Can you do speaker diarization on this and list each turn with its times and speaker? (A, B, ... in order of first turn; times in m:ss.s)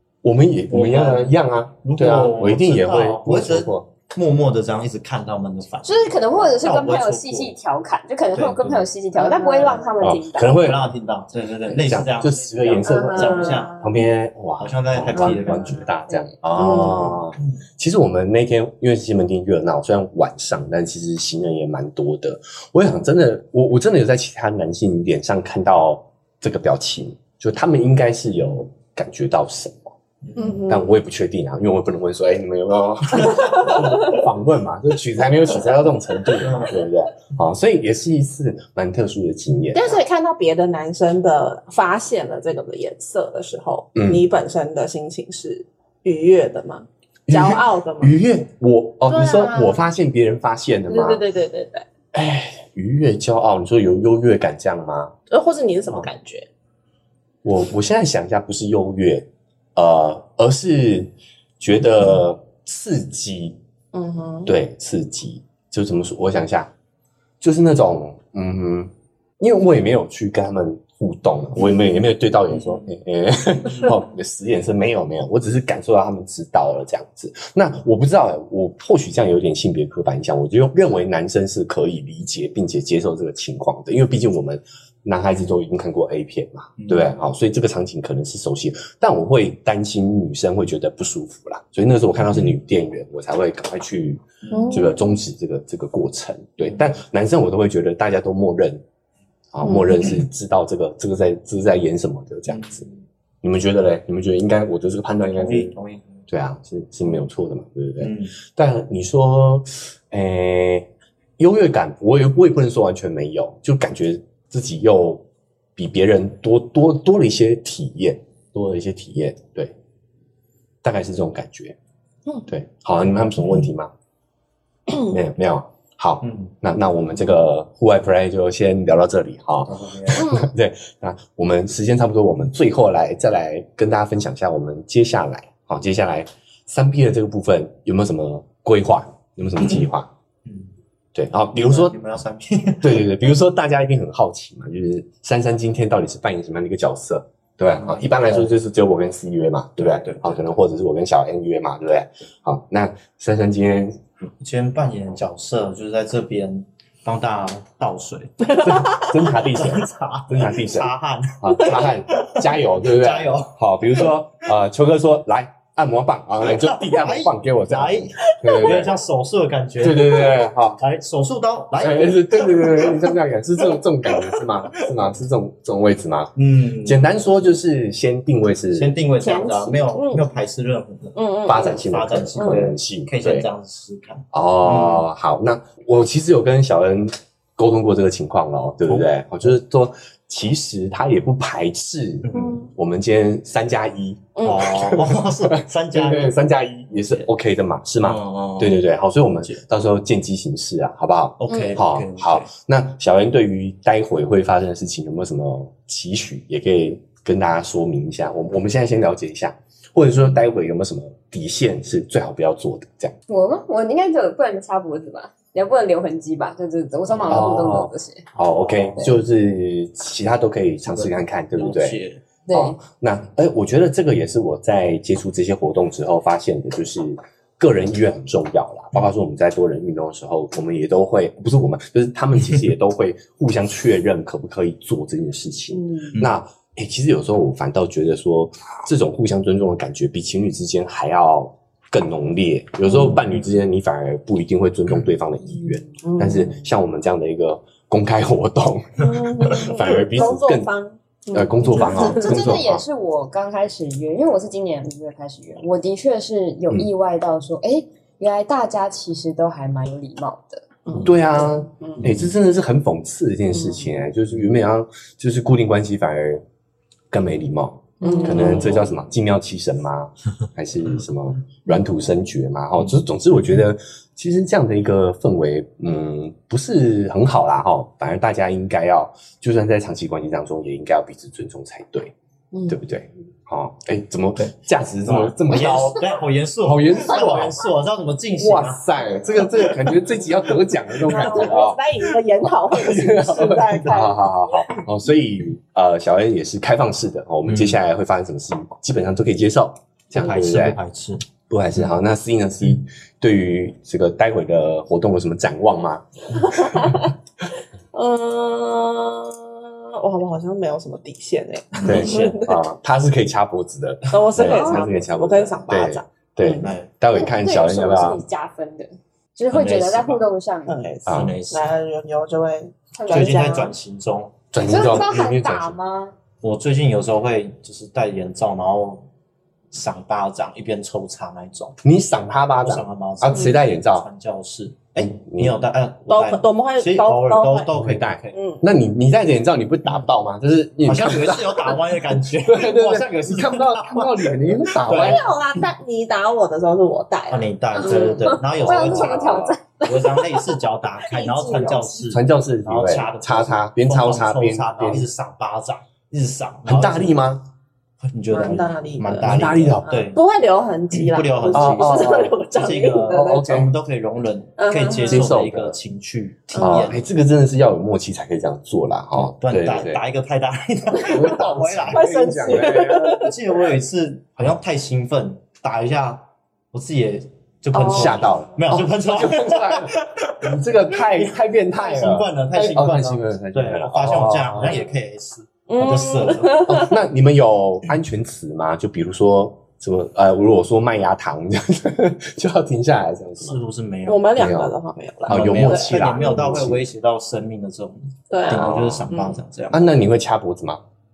0:00.2-0:03.9 A
0:00.7-0:07.6 B
0:05.8-0:10.6 C
0:08.3-0:08.9 B
0:09.2-0:09.9 D
0:10.0-0:10.9 A
0:10.5-0:13.8 B
0:11.6-0:29.9 A
0:12.9-0:13.8 D
0:14.6-0:15.9 B
0:16.5-0:17.2 D
0:30.2-0:30.6 B
0:30.4-0:30.9 D
0:30.7-0:40.0 A
0:36.4-0:36.8 B
0:39.7-0:48.1 D
0:44.0-0:44.2 A
0:47.3-0:51.2 A
0:49.1-0:49.8 D
0:50.9-0:51.9 D
0:52.1-0:55.1 A
0:55.3-0:56.5 D
0:57.4-1:03.6 A
1:03.9-1:04.5 D
1:04.4-1:06.7 A
1:07.4-1:38.8 A
1:26.8-1:27.1 B
1:34.4-1:34.9 B
1:34.5-1:35.0 D
1:36.6-1:36.9 B
1:39.5-1:42.8 A
1:42.5-1:43.0 B
1:43.4-1:45.7 A
1:45.3-1:46.2 B
1:46.3-1:55.2 A
1:48.0-1:48.3 B
1:55.8-1:59.7 A
2:00.8-2:01.8 A
2:02.5-2:03.9 A
2:05.0-2:20.1 A
2:06.2-2:06.5 B
2:07.1-2:07.4 B
2:09.7-2:10.2 B
2:10.2-2:10.5 D
2:20.4-2:20.7 B
2:21.1-2:21.9 A
2:21.5-2:23.1 B
2:22.8-2:34.0 A
2:27.7-2:28.5 B
2:29.8-2:30.6 B
2:34.4-2:43.5 B
2:38.6-2:49.0 A
2:46.4-2:53.1 B
2:49.8-2:50.8 A
2:51.8-2:59.0 A
2:54.1-2:54.4 B
2:56.4-2:57.0 B
2:58.7-3:05.0 B
2:59.2-3:00.2 D
2:59.2-3:00.1 C
3:01.2-3:01.8 D
3:01.4-3:03.5 A
3:02.4-3:02.6 D
3:04.3-3:33.1 A
3:08.9-3:09.5 B
3:12.2-3:12.6 B
3:14.4-3:14.7 D
3:14.4-3:16.4 B
3:18.0-3:19.6 B
3:21.4-3:22.5 B
3:33.3-3:38.2 C
3:37.2-4:10.7 A
3:38.4-3:39.1 B
3:40.8-3:42.2 B
3:42.5-3:42.8 C
4:03.0-4:03.3 B
4:06.0-4:06.7 D
4:09.0-4:12.5 D
4:11.3-4:12.8 A
4:11.7-4:20.6 C
4:20.9-4:22.0 D
4:21.0-4:26.4 A
4:23.5-4:24.0 D
4:27.1-4:42.1 A
4:28.0-4:28.8 D
4:28.0-4:28.5 C
4:42.7-4:46.1 A
4:45.0-4:48.8 B
4:46.6-4:47.6 A
4:48.4-4:51.8 A
4:49.4-4:50.1 B
4:51.0-4:54.2 D
4:51.1-4:51.5 B
4:52.7-5:00.8 A
4:57.4-4:57.8 B
5:00.1-5:01.2 B
5:01.5-5:07.1 A
5:06.4-5:07.1 D
5:07.9-5:12.6 D
5:11.8-5:12.4 B
5:11.8-5:18.2 A
5:14.1-5:16.7 D
5:14.5-5:14.8 C
5:16.6-5:16.9 B
5:17.1-5:20.7 C
5:19.5-5:20.2 B
5:20.7-5:23.7 D
5:21.1-5:21.4 A
5:21.1-5:21.7 B
5:23.0-5:23.4 C
5:23.0-5:24.4 B
5:24.5-5:25.8 A
5:24.6-5:26.1 C
5:26.4-5:29.0 B
5:29.7-5:31.8 B
5:31.8-5:34.1 A
5:32.6-5:38.4 B
5:35.0-5:35.6 A
5:36.1-5:37.7 D
5:37.7-5:45.2 A
5:38.3-5:38.6 D
5:40.8-5:45.3 B
5:44.9-5:48.3 D
5:47.3-5:57.2 B
5:47.8-5:50.3 C
5:48.5-5:49.6 A
5:51.0-5:52.0 D
5:52.0-5:55.1 A
5:56.6-5:57.5 A
5:58.0-6:00.2 B
5:58.3-6:03.7 D
5:59.2-5:59.8 A
6:00.9-6:07.0 B
6:01.5-6:02.4 A
6:03.2-6:03.7 A
6:04.6-6:05.3 D
6:05.0-6:05.8 A
6:06.6-6:06.9 D
6:06.6-6:10.0 A
6:09.2-6:26.8 B
6:11.0-6:13.2 A
6:11.9-6:13.6 D
6:17.7-6:18.2 D
6:17.9-6:24.9 A
6:25.7-6:27.0 D
6:26.6-6:33.6 A
6:33.4-6:34.3 B
6:34.0-6:36.6 D
6:34.4-6:34.7 A
6:35.3-6:36.8 A
6:35.3-6:39.9 B
6:38.3-6:39.4 D
6:38.5-6:39.1 A
6:39.7-6:40.8 A